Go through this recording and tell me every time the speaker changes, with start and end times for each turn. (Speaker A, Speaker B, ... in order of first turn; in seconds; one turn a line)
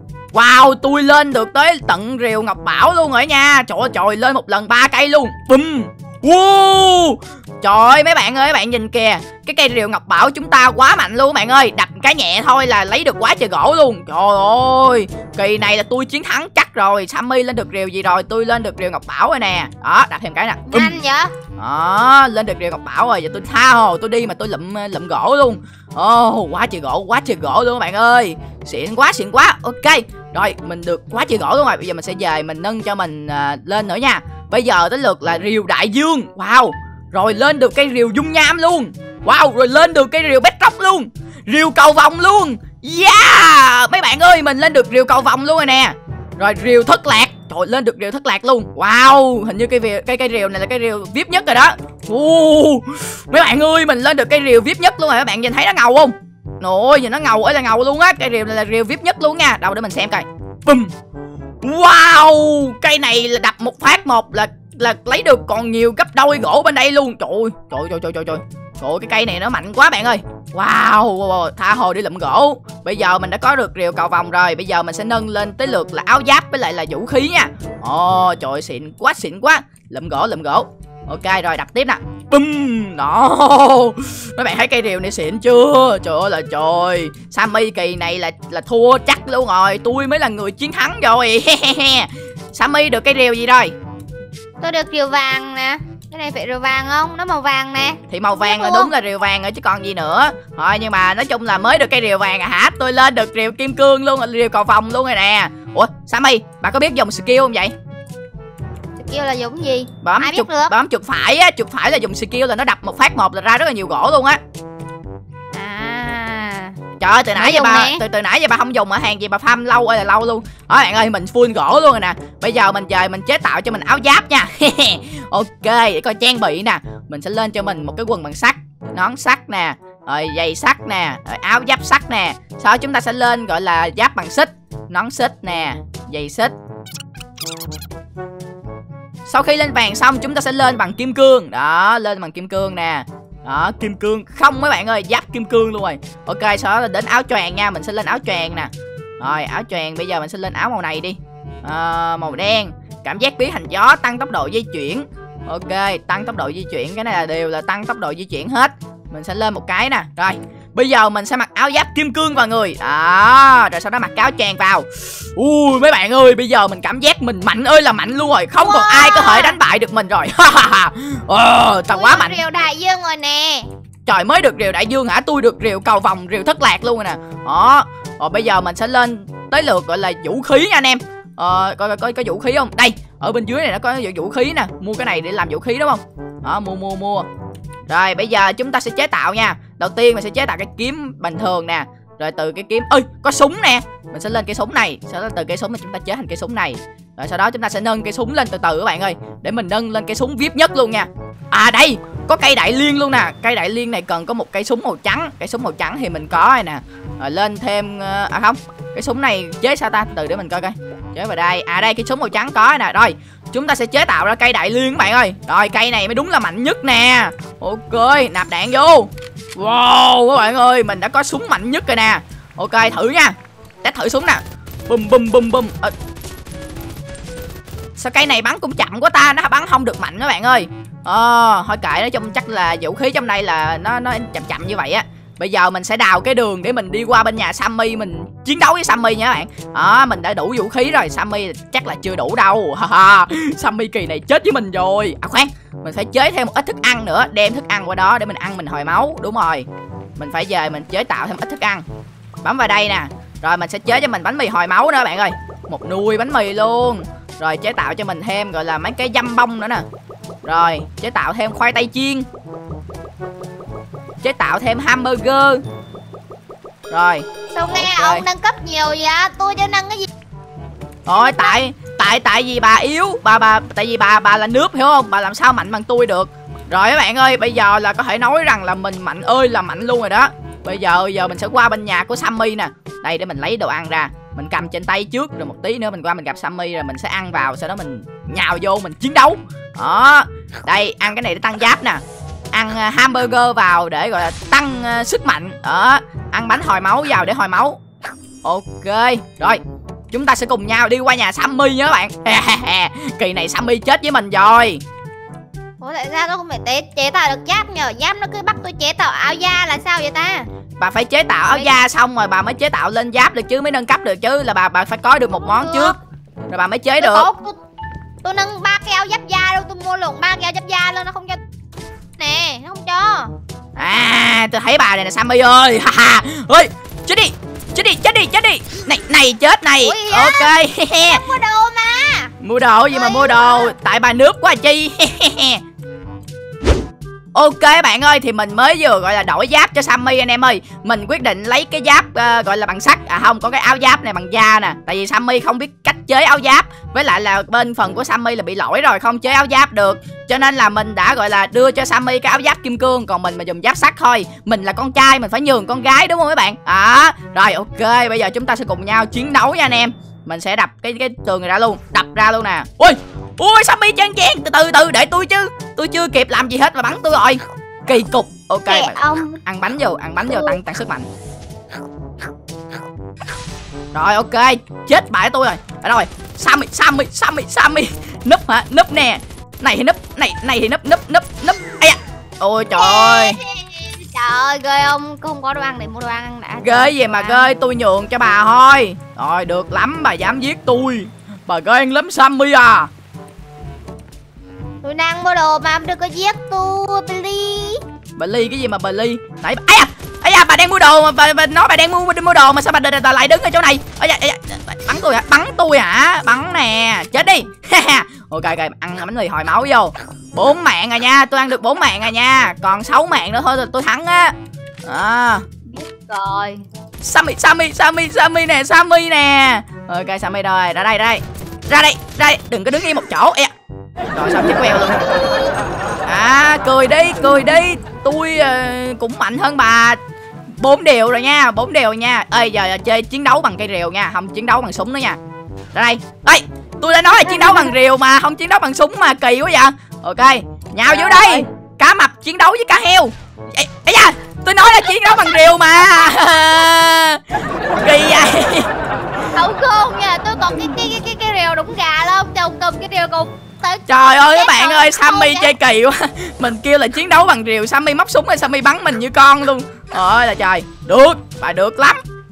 Speaker A: 0.3-21.0
Speaker B: 20.7-21.3
Speaker A: 21.6-60.9
Speaker A: 61.6-93.7
Speaker B: 94.6-98.9
Speaker A: 98.1-107.7
Speaker B: 109.0-110.7
Speaker A: 110.0-114.4
Speaker B: 115.5-116.8
Speaker A: 117.0-136.5
Speaker B: 117.3-118.0
Speaker A: 139.3-172.4
Speaker B: 168.6-169.6
Speaker B: 171.9-173.7
Speaker A: 174.1-187.3
Speaker A: 187.9-225.9
Speaker A: 228.0-251.8
Speaker A: 252.4-259.8
Speaker A: 260.4-262.2
Speaker A: 264.2-265.6
Speaker A: 266.9-268.3
Speaker B: 267.5-270.1
Speaker A: 271.1-297.8
Speaker B: 271.1-271.6
Speaker A: 298.4-299.6
Speaker A: 300.1-304.8
Speaker B: 305.8-310.5
Speaker A: 310.8-315.9
Speaker B: 311.5-311.8
Speaker B: 315.3-316.0
Speaker A: 316.5-317.3
Speaker B: 317.0-317.6
Speaker B: 318.2-321.4
Speaker B: 322.2-323.3
Speaker A: 323.8-331.3
Speaker B: 329.8-332.3
Speaker A: 332.4-335.6
Speaker B: 332.9-333.7
Speaker A: 337.3-371.1
Speaker B: 368.7-369.4
Speaker B: 370.3-370.6
Speaker A: 373.9-383.4
Speaker B: 382.8-387.5
Speaker A: 386.6-392.9
Speaker B: 394.8-397.8
Speaker A: 398.2-414.3
Speaker A: 414.9-415.5
Speaker B: 415.7-416.6
Speaker A: 417.0-423.5
Speaker A: 424.1-425.1
Speaker A: 426.1-435.2
Speaker A: 435.7-448.7
Speaker B: 441.0-441.4
Speaker B: 444.7-446.7
Speaker B: 449.3-455.6
Speaker A: 453.9-462.0